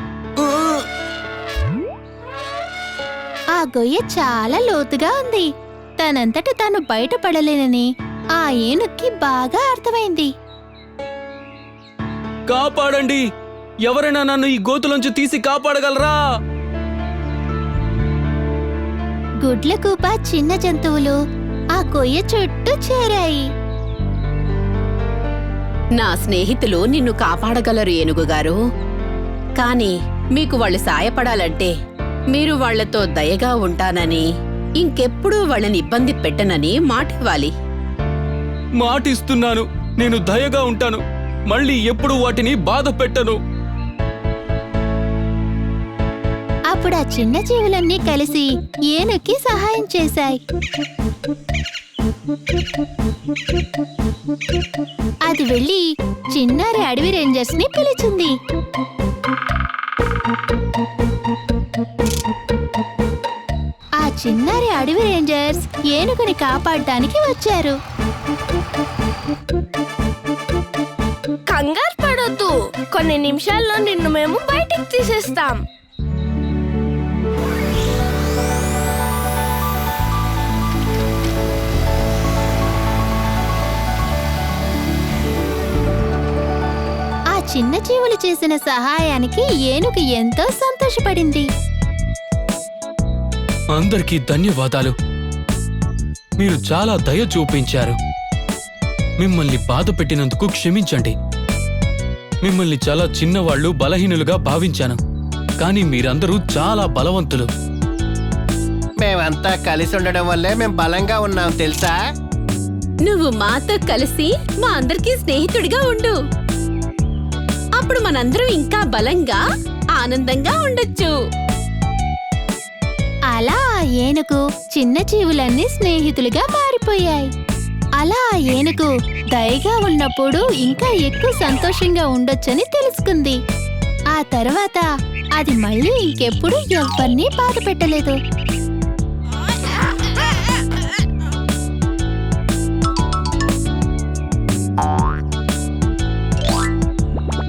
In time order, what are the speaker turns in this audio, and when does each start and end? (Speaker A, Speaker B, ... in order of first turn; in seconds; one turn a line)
Speaker A: 0.4-0.8
Speaker B: 3.5-5.5
Speaker B: 6.0-7.9
Speaker B: 8.4-10.3
Speaker A: 12.5-13.2
Speaker A: 13.8-16.2
Speaker B: 19.4-21.2
Speaker B: 21.8-23.4
Speaker C: 26.0-28.6
Speaker C: 29.6-31.7
Speaker C: 32.3-34.2
Speaker C: 34.8-37.5
Speaker A: 38.8-43.4
Speaker B: 46.7-50.4
Speaker B: 55.3-58.3
Speaker B: 64.0-67.8
Speaker D: 71.5-75.6
Speaker B: 87.3-91.5
Speaker A: 93.7-94.9
Speaker A: 96.4-98.0
Speaker A: 99.2-101.1
Speaker A: 102.4-105.0
Speaker A: 105.6-107.5
Speaker E: 109.0-112.0
Speaker C: 113.0-116.2
Speaker C: 117.8-119.4
Speaker C: 119.9-121.2
Speaker B: 123.3-127.3
Speaker B: 128.0-133.4
Speaker B: 134.1-134.8
Speaker B: 135.4-138.2